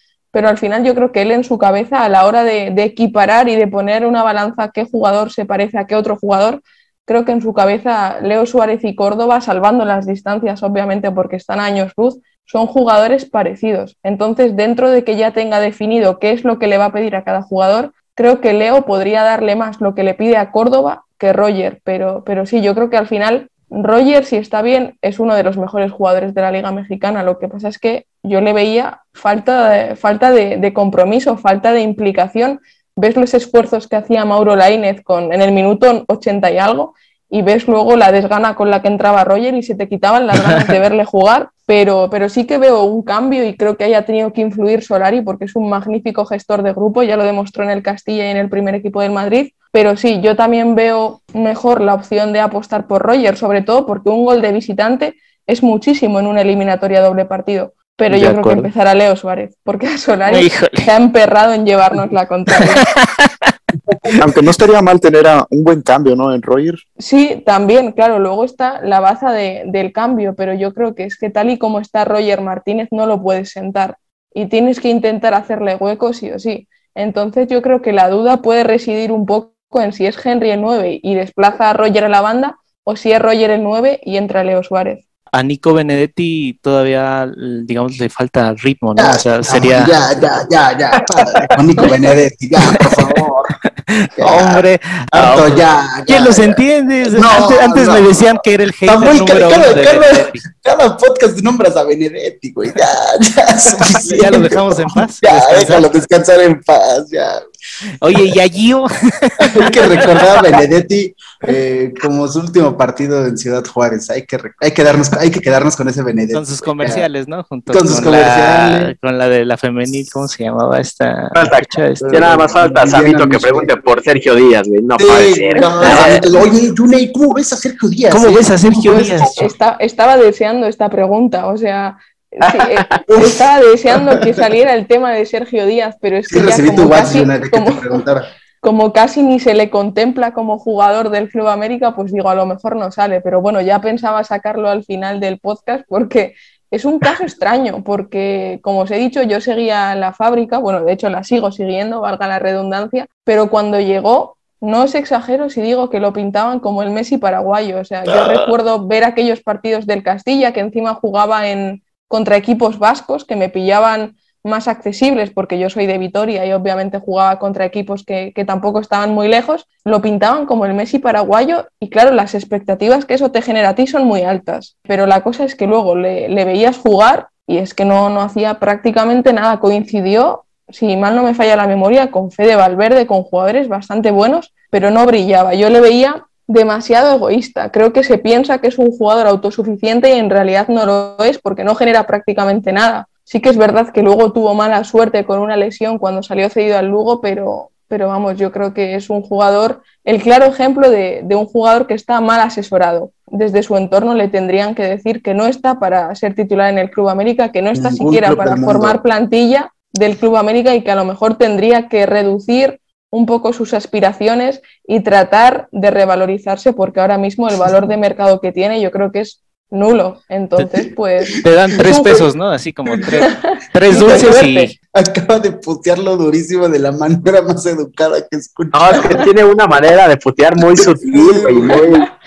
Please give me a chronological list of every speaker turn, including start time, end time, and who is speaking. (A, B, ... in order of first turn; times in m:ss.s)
0:00.3-1:02.8 A
0:40.3-0:40.7 B
0:58.1-0:58.7 B
1:00.3-1:00.9 B
1:02.6-1:03.5 B
1:03.9-1:04.1 C
1:04.2-1:06.8 D
1:07.0-1:25.0 A
1:25.3-1:30.0 B
1:29.0-1:33.5 C
1:32.7-1:33.2 B
1:33.9-1:40.4 B
1:34.2-1:38.1 C
1:38.8-1:47.4 C
1:43.8-1:45.9 B
1:48.0-1:50.5 B
1:49.4-1:57.1 C
1:56.3-2:02.3 B
1:57.7-1:58.9 C
2:01.3-2:06.2 E
2:02.0-2:03.7 C
2:05.0-2:09.0 C
2:05.8-2:06.2 B
2:08.1-2:09.5 B
2:08.8-2:18.0 A
2:12.5-2:12.9 E
2:13.1-2:14.4 C
2:16.3-2:18.3 C
2:18.6-3:42.2 A
2:38.0-2:38.5 B
3:27.7-3:29.0 C
3:41.4-3:44.7 B
3:42.0-3:42.2 C
3:43.2-3:44.7 A
3:43.9-3:44.4 C
3:44.9-3:49.2 C
3:48.7-3:52.1 E
3:50.8-3:51.8 C